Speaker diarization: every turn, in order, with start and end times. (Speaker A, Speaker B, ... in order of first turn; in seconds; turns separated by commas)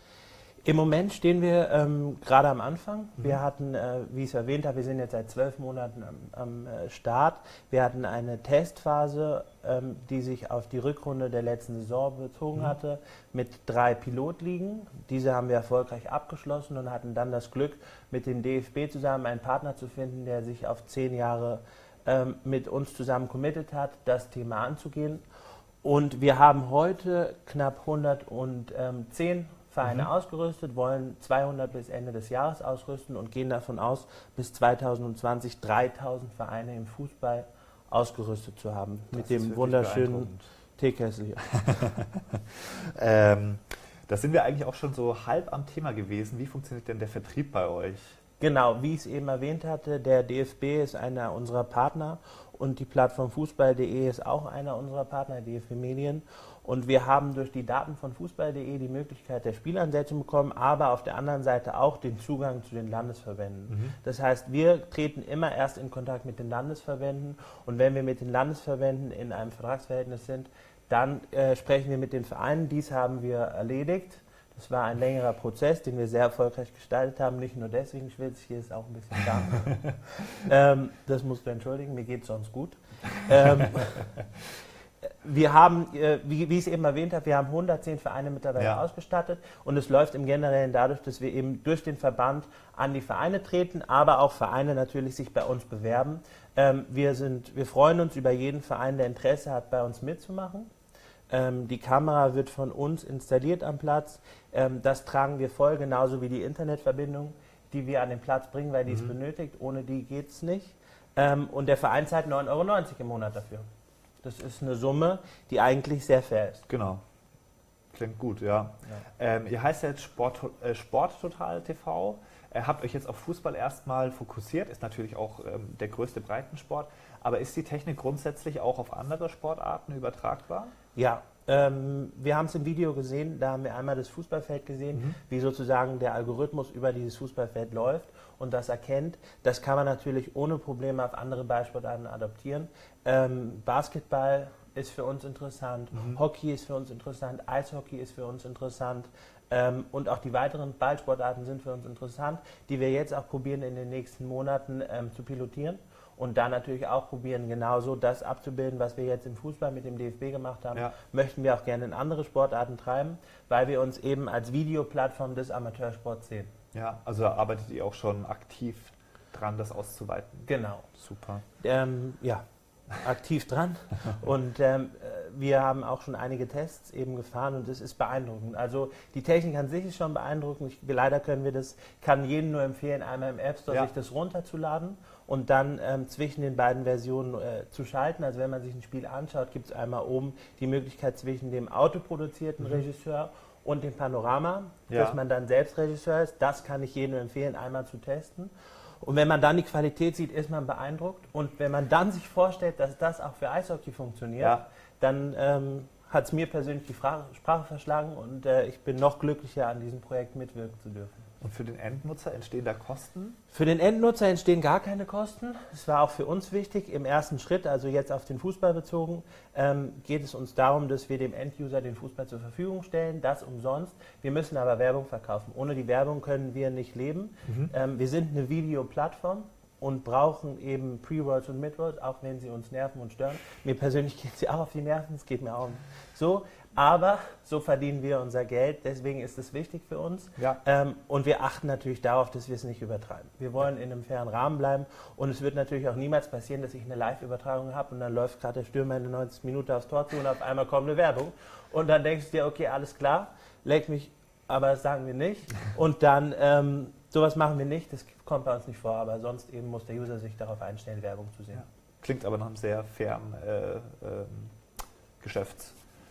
Speaker A: 0.6-25.2, Speaker A: 25.8-41.9, Speaker B: 29.8-30.1, Speaker B: 39.1-40.5, Speaker B: 41.6-48.2, Speaker A: 48.4-84.1, Speaker B: 63.7-64.0, Speaker A: 85.2-100.7, Speaker A: 101.3-113.7, Speaker B: 108.9-109.1, Speaker A: 114.2-116.7, Speaker B: 116.7-117.0, Speaker B: 117.9-130.7, Speaker A: 130.9-166.5, Speaker B: 145.9-146.2, Speaker B: 166.7-171.4, Speaker A: 170.5-170.9, Speaker A: 171.6-172.4, Speaker A: 173.0-211.2, Speaker B: 194.9-195.2, Speaker B: 211.4-213.4, Speaker A: 213.5-261.6, Speaker B: 227.5-227.7, Speaker B: 261.5-264.6, Speaker B: 265.2-265.8